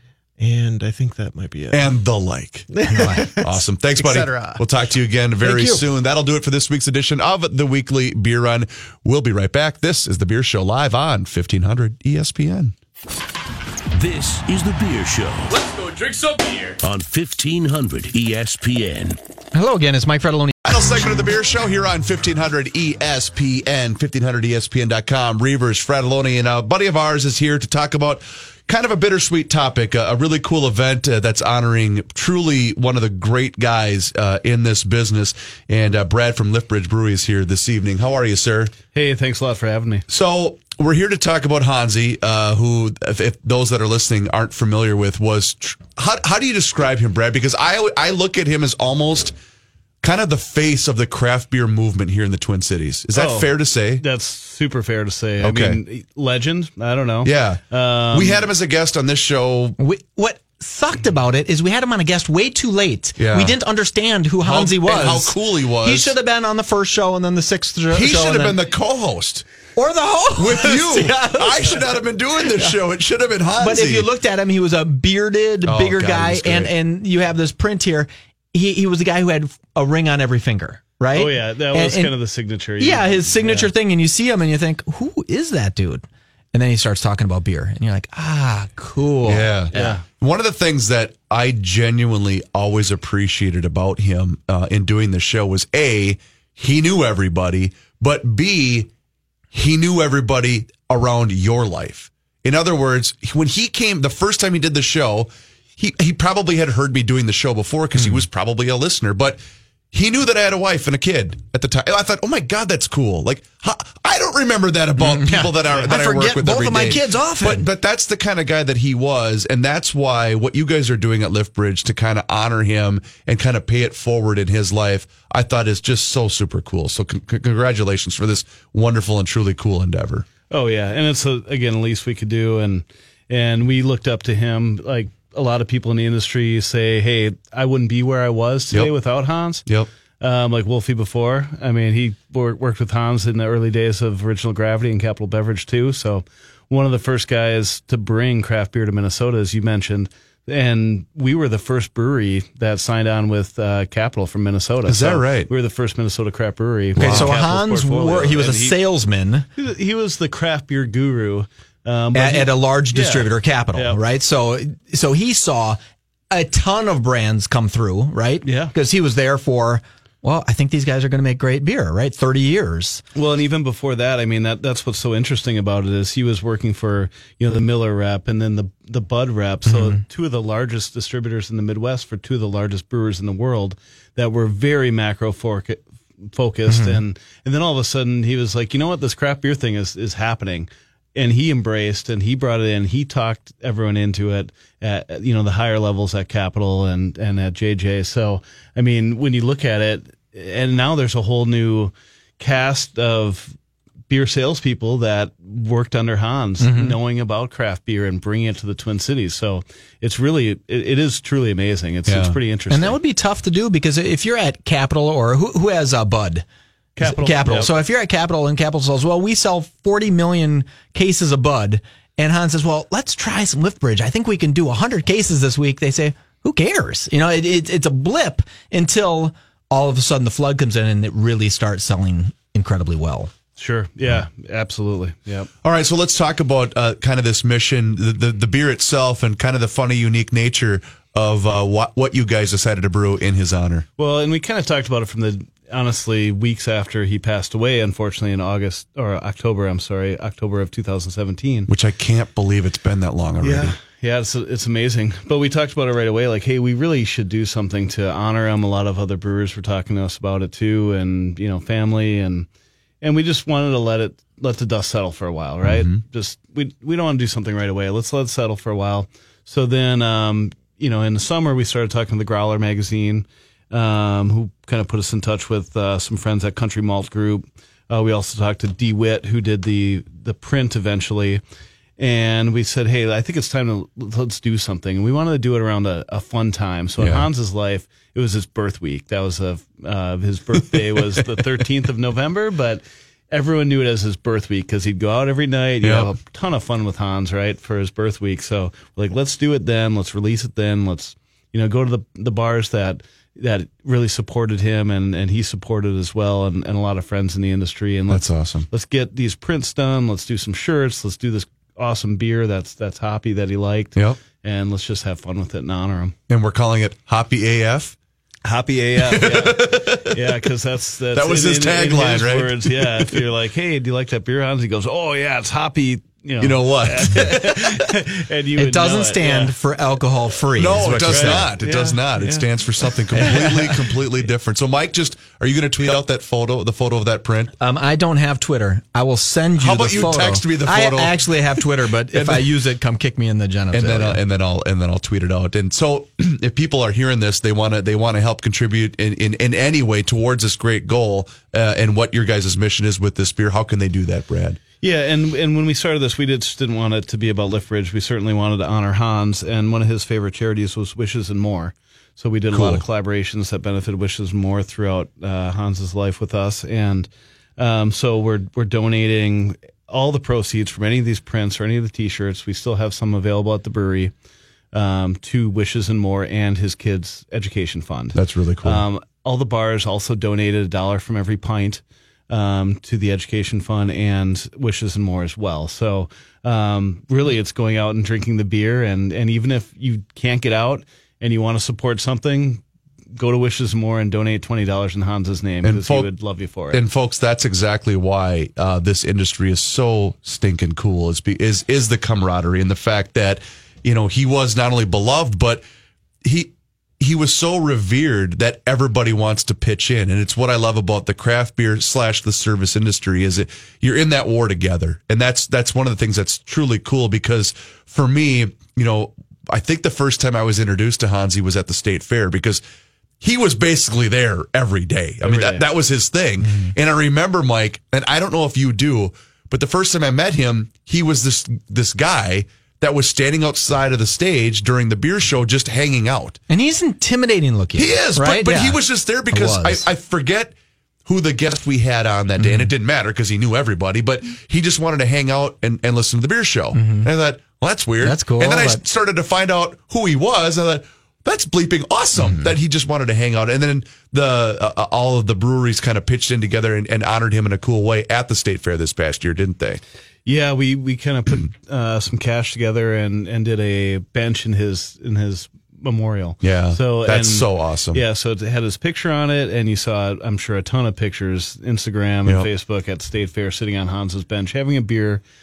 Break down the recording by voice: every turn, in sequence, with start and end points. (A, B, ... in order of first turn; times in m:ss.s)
0:00.4-0:01.9 A
0:01.7-0:02.8 B
0:02.7-0:04.7 A
0:02.9-0:03.3 C
0:03.4-0:12.7 B
0:05.4-0:05.8 A
0:14.0-0:19.2 D
0:19.5-0:20.6 C
0:20.6-0:38.8 B
0:38.9-0:40.1 E
0:40.1-0:49.3 B
0:50.0-0:54.0 B
0:53.1-0:58.5 E
0:55.4-0:55.8 B
0:57.2-0:59.8 B
0:59.8-1:08.6 C
1:03.2-1:03.6 B
1:04.4-1:06.2 B
1:07.9-1:09.4 B
1:09.8-1:11.8 C
1:10.4-1:14.1 B
1:13.6-1:22.1 C
1:15.7-1:16.7 B
1:21.1-1:23.7 E
1:22.8-1:29.9 C
1:29.3-1:38.9 B
1:29.7-1:30.0 E
1:39.5-1:49.4 B
1:49.9-2:10.3 B
1:55.0-1:57.7 C
2:10.5-2:19.7 E
2:20.2-2:38.8 E
2:34.9-2:35.5 B
2:37.0-2:37.4 B
2:37.0-2:39.5 C
2:39.6-2:44.0 E
2:42.1-2:45.8 C
2:46.3-2:53.0 C
2:48.4-2:48.8 E
2:53.2-3:23.6 E
2:59.7-3:00.0 C
3:06.7-3:07.0 C
3:24.1-3:33.0 E
3:26.6-3:27.0 C
3:32.1-3:32.4 B
3:32.7-3:36.4 C
3:37.0-3:37.8 E
3:37.0-3:53.3 C
3:53.6-3:55.5 E
3:55.6-4:03.8 B
4:04.0-4:11.7 E
4:11.7-4:13.8 B
4:13.4-4:22.5 E
4:23.0-4:41.4 E
4:25.6-4:26.0 B
4:42.0-5:16.2 E
4:47.0-4:47.3 B
4:50.7-4:51.2 B
4:55.8-4:56.1 B
5:08.1-5:08.7 B
5:14.0-5:14.2 B
5:16.3-5:18.0 B
5:18.4-5:29.6 E
5:19.0-5:20.3 B
5:21.1-5:23.2 B
5:26.4-5:27.6 B
5:28.6-5:31.5 C
5:30.6-5:37.5 B
5:31.0-5:32.9 E
5:33.1-5:33.9 C
5:37.6-5:44.2 C
5:39.6-5:41.6 B
5:42.1-5:42.5 B
5:43.7-5:54.6 B
5:54.8-6:14.1 E
6:02.5-6:02.8 B
6:14.7-6:32.6 E
6:18.1-6:18.8 B
6:33.2-6:36.8 E
6:35.6-6:36.1 B
6:36.7-6:45.6 B
6:46.2-7:02.6 B
7:03.2-7:16.4 B
7:05.2-7:05.7 E
7:06.4-7:06.7 C
7:16.5-7:19.9 C
7:17.8-7:20.5 B
7:21.1-7:39.8 B
7:22.4-7:22.7 C
7:26.7-7:27.1 C
7:28.0-7:28.8 C
7:32.2-7:32.5 C
7:40.2-7:55.2 E
7:46.4-7:48.0 B